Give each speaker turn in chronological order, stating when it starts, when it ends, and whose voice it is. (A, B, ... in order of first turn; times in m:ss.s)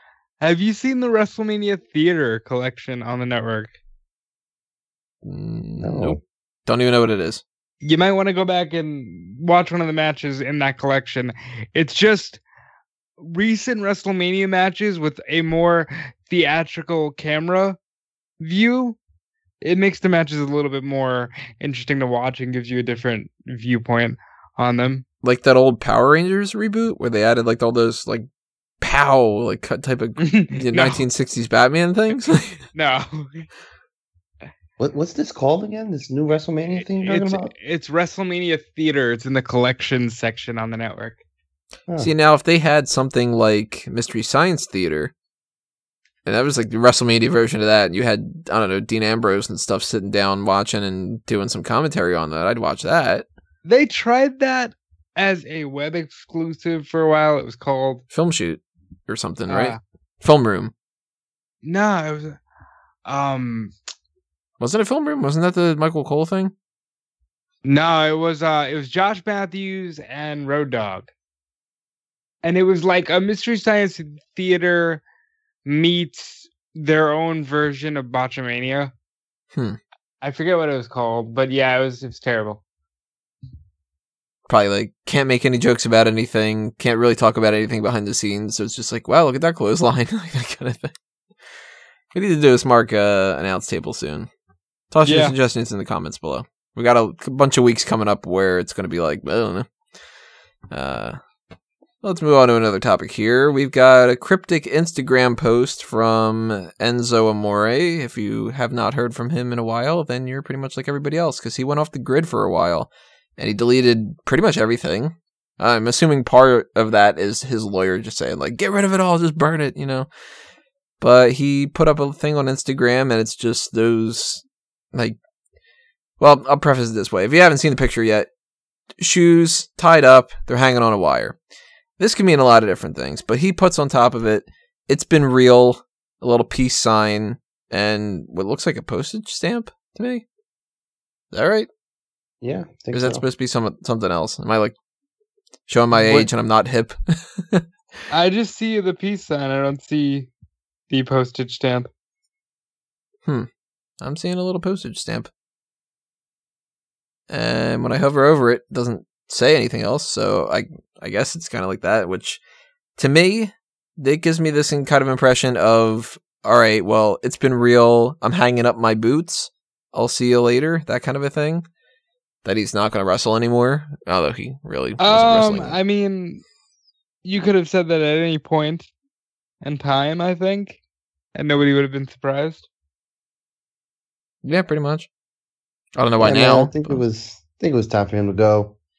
0:00.4-0:03.7 A
0:05.2-0:07.4 B
0:05.8-0:06.2 C
0:07.8-0:12.4 A
0:13.2-0:17.8 A
0:18.4-0:19.0 A
0:19.6-0:25.0 A
0:25.2-0:28.2 B
0:28.8-0:32.6 B
0:30.2-0:31.0 A
0:32.7-0:33.5 A
0:34.8-0:37.5 C
0:36.8-0:41.2 A
0:42.0-0:45.1 B
0:46.2-0:53.2 B
0:53.6-0:58.0 A
0:58.1-1:00.7 B
0:59.5-0:59.8 A
1:01.6-1:02.4 A
1:03.0-1:03.7 A
1:04.6-1:06.5 B
1:07.6-1:11.1 A
1:12.4-1:15.0 A
1:15.6-1:18.9 A
1:20.2-1:22.6 A
1:24.5-1:30.9 B
1:32.1-1:34.3 B
1:34.9-1:39.7 B
1:35.0-1:35.3 A
1:40.7-1:41.2 B
1:42.0-2:00.1 B
2:01.0-2:05.2 B
2:06.2-2:08.3 B
2:09.0-2:11.4 B
2:12.0-2:20.2 B
2:21.3-2:21.7 B
2:22.4-2:23.2 C
2:22.9-2:24.7 B
2:25.7-2:27.6 B
2:28.1-2:30.3 A
2:30.9-2:31.9 A
2:34.0-2:35.3 B
2:37.3-2:42.4 B
2:43.0-2:51.6 B
2:52.4-2:55.8 B
2:55.0-2:56.4 A
2:57.2-2:58.9 A
2:59.6-3:00.8 A
3:01.3-3:02.6 A
3:04.4-3:05.1 B
3:06.0-3:07.0 B
3:06.2-3:08.8 C